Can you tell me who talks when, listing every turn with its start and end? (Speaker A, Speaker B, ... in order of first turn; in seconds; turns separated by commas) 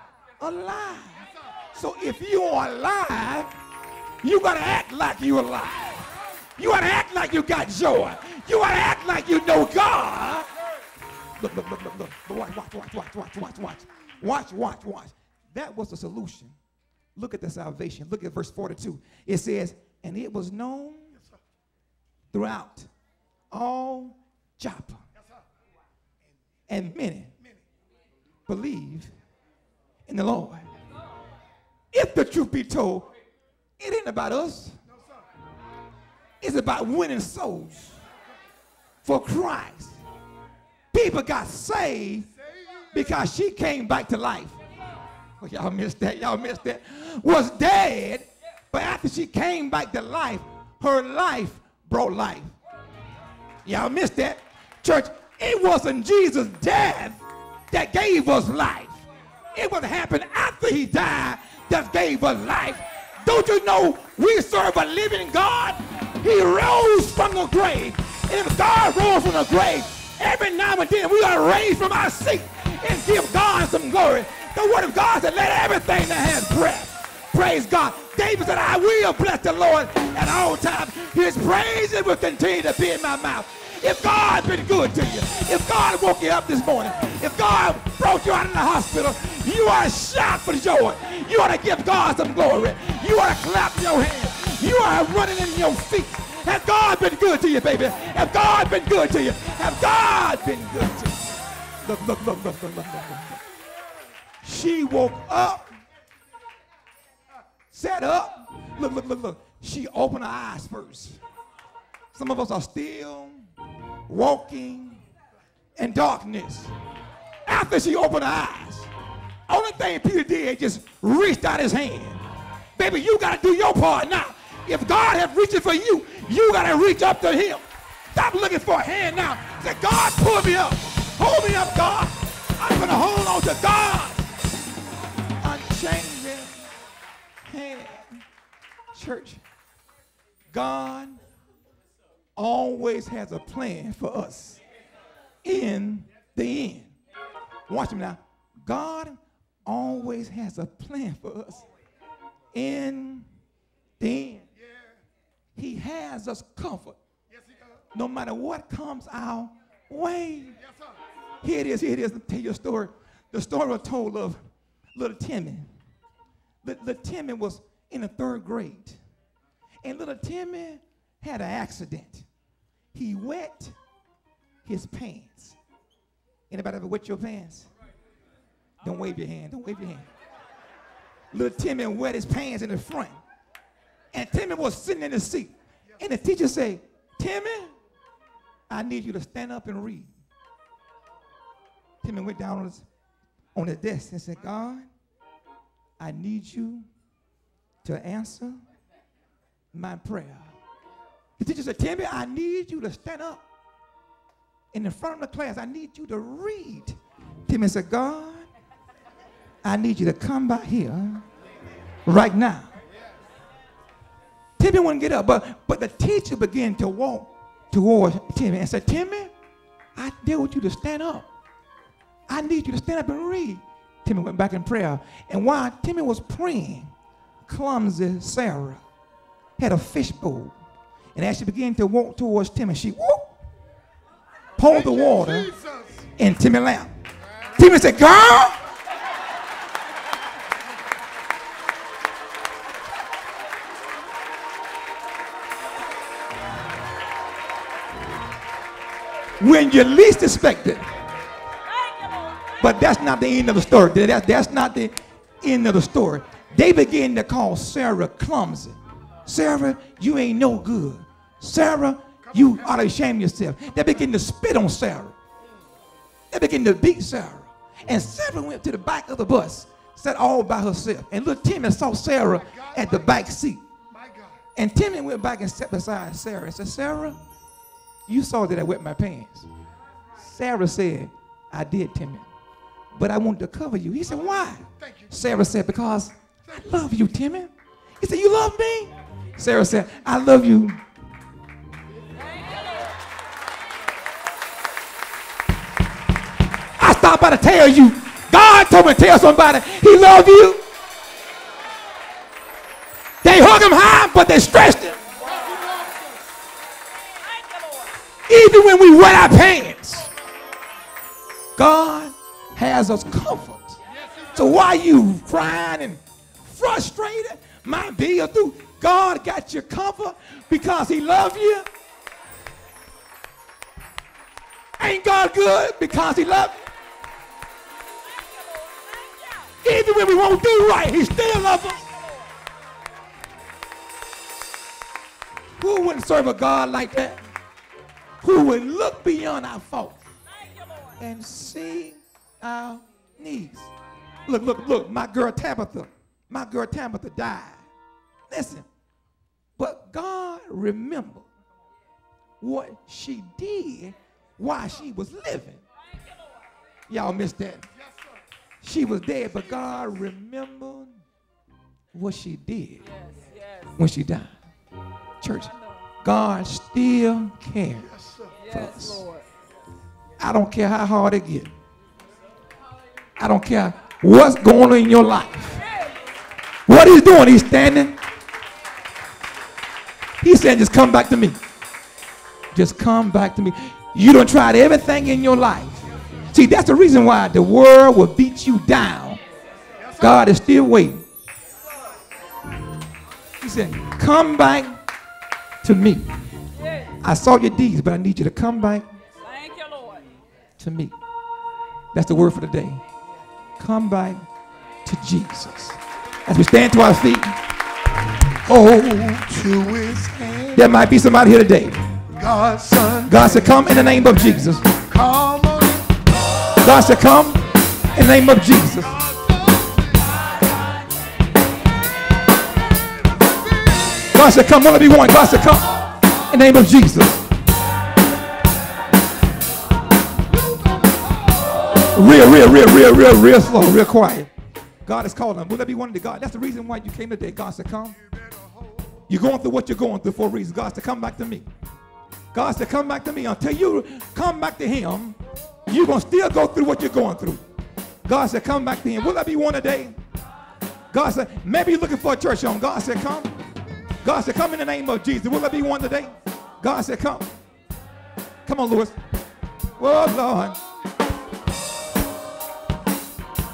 Speaker A: 0.4-3.5, Speaker A: 4.2-10.5, Speaker A: 11.4-16.5, Speaker A: 17.2-21.1, Speaker A: 22.3-22.9, Speaker A: 23.5-25.0, Speaker A: 26.7-27.3, Speaker A: 28.5-29.1, Speaker A: 30.1-30.7, Speaker A: 31.9-33.1, Speaker A: 33.8-34.8, Speaker A: 36.4-38.0, Speaker A: 39.0-40.0, Speaker A: 40.9-42.3, Speaker B: 42.5-42.8, Speaker A: 42.9-44.6, Speaker A: 45.4-52.6, Speaker A: 53.6-103.4, Speaker A: 104.4-105.7, Speaker A: 107.7-111.2, Speaker A: 112.1-113.4, Speaker A: 114.1-115.0, Speaker A: 115.8-116.7, Speaker A: 117.5-118.9, Speaker A: 119.5-122.2, Speaker A: 122.8-134.3, Speaker A: 135.4-136.6, Speaker A: 137.5-138.2, Speaker A: 138.9-139.4, Speaker A: 140.5-141.2, Speaker A: 142.4-144.6, Speaker A: 145.4-146.9, Speaker A: 147.7-151.7, Speaker A: 152.5-153.3, Speaker A: 154.0-154.5, Speaker B: 154.6-154.9, Speaker A: 155.6-157.0, Speaker B: 157.3-157.8, Speaker A: 157.9-160.6, Speaker B: 160.7-161.0, Speaker A: 161.4-164.4, Speaker A: 165.0-165.7, Speaker A: 166.6-169.0, Speaker A: 169.8-172.3, Speaker A: 172.9-173.8, Speaker A: 174.7-175.6, Speaker A: 176.5-177.7, Speaker A: 178.8-180.1, Speaker A: 181.3-183.2, Speaker A: 184.1-187.8, Speaker A: 188.7-190.1, Speaker A: 192.0-192.9, Speaker A: 193.6-194.9, Speaker A: 196.0-196.9, Speaker A: 197.8-198.6, Speaker A: 199.7-200.6, Speaker A: 201.4-203.4, Speaker A: 204.7-208.5, Speaker A: 209.6-211.2, Speaker A: 212.1-212.7, Speaker A: 214.6-219.3, Speaker A: 220.0-221.3, Speaker A: 222.3-226.9, Speaker A: 227.5-228.8, Speaker A: 229.6-230.6, Speaker A: 231.2-233.3, Speaker A: 234.6-235.5, Speaker B: 234.6-236.1, Speaker A: 236.2-236.9, Speaker A: 237.6-238.6, Speaker A: 249.4-250.9, Speaker C: 251.7-252.6, Speaker A: 252.6-265.1, Speaker B: 262.2-262.8, Speaker A: 266.3-273.6, Speaker B: 272.5-273.1, Speaker B: 273.9-274.4, Speaker A: 274.6-277.2, Speaker A: 278.1-279.5, Speaker A: 280.2-282.3, Speaker A: 282.9-290.8, Speaker B: 284.8-285.1, Speaker C: 292.1-292.9, Speaker A: 296.8-300.6, Speaker A: 303.2-305.0, Speaker B: 305.2-306.2, Speaker C: 307.2-307.9, Speaker A: 308.3-310.1, Speaker A: 311.6-313.8, Speaker B: 313.9-314.5, Speaker A: 314.3-321.7, Speaker A: 324.8-326.6, Speaker C: 328.1-329.5, Speaker A: 329.6-331.8, Speaker C: 331.8-332.3, Speaker A: 335.6-337.2, Speaker A: 338.2-340.0, Speaker C: 340.3-341.0, Speaker A: 341.0-343.7, Speaker A: 344.3-347.7, Speaker A: 348.3-348.7, Speaker A: 349.6-351.3, Speaker A: 352.4-355.6, Speaker A: 356.9-357.6, Speaker A: 358.6-361.0, Speaker A: 361.9-362.8, Speaker C: 362.8-363.8, Speaker A: 363.8-364.3, Speaker A: 365.2-365.5, Speaker C: 365.6-365.8, Speaker A: 366.0-367.9, Speaker B: 367.8-368.4, Speaker C: 368.4-369.3, Speaker A: 368.5-369.1, Speaker A: 370.2-371.5, Speaker A: 373.2-375.6, Speaker C: 375.6-376.0, Speaker A: 376.7-378.0, Speaker A: 380.2-381.4, Speaker A: 382.5-389.2, Speaker B: 389.8-390.3, Speaker A: 390.0-391.0, Speaker A: 393.4-394.8, Speaker A: 395.6-396.1, Speaker C: 396.6-396.9, Speaker A: 397.0-398.9, Speaker C: 399.2-400.1, Speaker A: 400.6-400.9, Speaker A: 401.9-402.8, Speaker A: 403.6-404.2, Speaker A: 404.9-407.4, Speaker B: 408.4-410.9, Speaker A: 410.6-411.8, Speaker B: 412.1-416.1, Speaker A: 413.1-414.6, Speaker A: 416.6-417.4, Speaker A: 417.9-418.9, Speaker B: 418.8-420.2, Speaker B: 422.5-424.4, Speaker A: 424.1-425.7, Speaker A: 426.3-427.2, Speaker B: 430.3-432.0, Speaker A: 431.9-434.3, Speaker A: 434.9-438.0, Speaker B: 437.9-439.1, Speaker A: 439.1-441.5, Speaker A: 442.3-445.2, Speaker A: 445.7-447.4, Speaker A: 448.1-450.0, Speaker A: 450.9-453.3, Speaker A: 454.0-457.3, Speaker A: 458.5-459.0, Speaker A: 459.8-460.6, Speaker B: 460.2-461.2